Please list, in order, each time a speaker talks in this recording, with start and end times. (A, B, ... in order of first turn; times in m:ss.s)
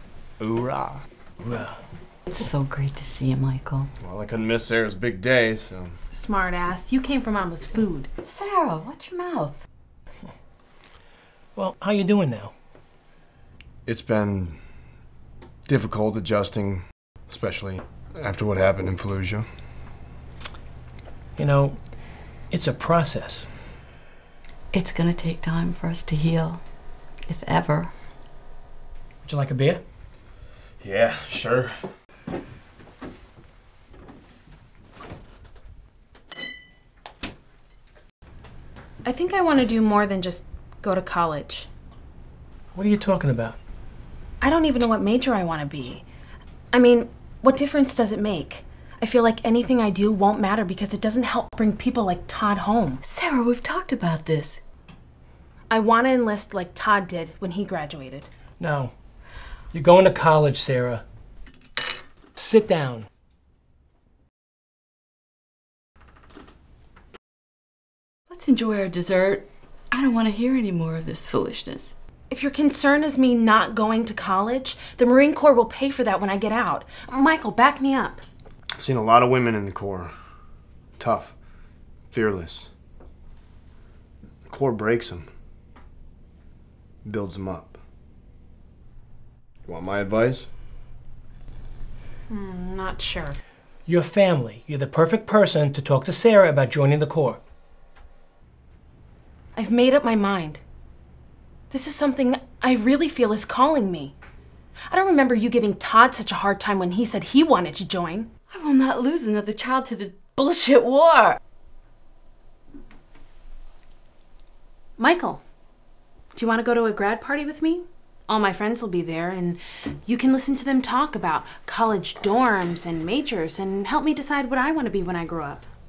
0:00.4-0:01.0 A
0:01.4-0:01.8 B
0:02.3-0:03.9 C
0:04.0-0:06.0 A
0:06.1-0:08.1 D
0:08.2-0:09.6 C
0:11.6-0:12.5 B
0:13.9-0:14.6 A
0:15.7-0:19.5 A
0:21.4-0:21.9 B
0:22.5-0:23.5 B
0:24.7-0:26.6 C
0:27.3-0:27.9 C
0:29.2-0:29.8 B
0:30.8-0:31.9 A
0:39.0-0:41.7 D
0:42.7-0:43.6 B
0:44.4-0:46.0 D
0:46.7-0:53.0 D
0:53.0-0:54.6 C
0:55.7-0:58.3 D
0:58.6-0:58.9 B
0:59.7-1:01.0 B
1:02.4-1:03.1 B
1:08.3-1:11.9 C
1:12.3-1:18.2 D
1:18.8-1:20.1 A
1:21.0-1:21.4 A
1:22.1-1:22.7 A
1:24.5-1:25.3 A
1:27.0-1:27.8 A
1:29.6-1:30.5 A
1:32.3-1:33.4 D
1:33.9-1:37.4 B
1:39.6-1:40.6 D
1:41.7-1:44.1 D
1:44.9-1:48.3 D
1:48.5-1:51.4 C
1:55.0-1:55.4 D
1:56.4-2:05.6 D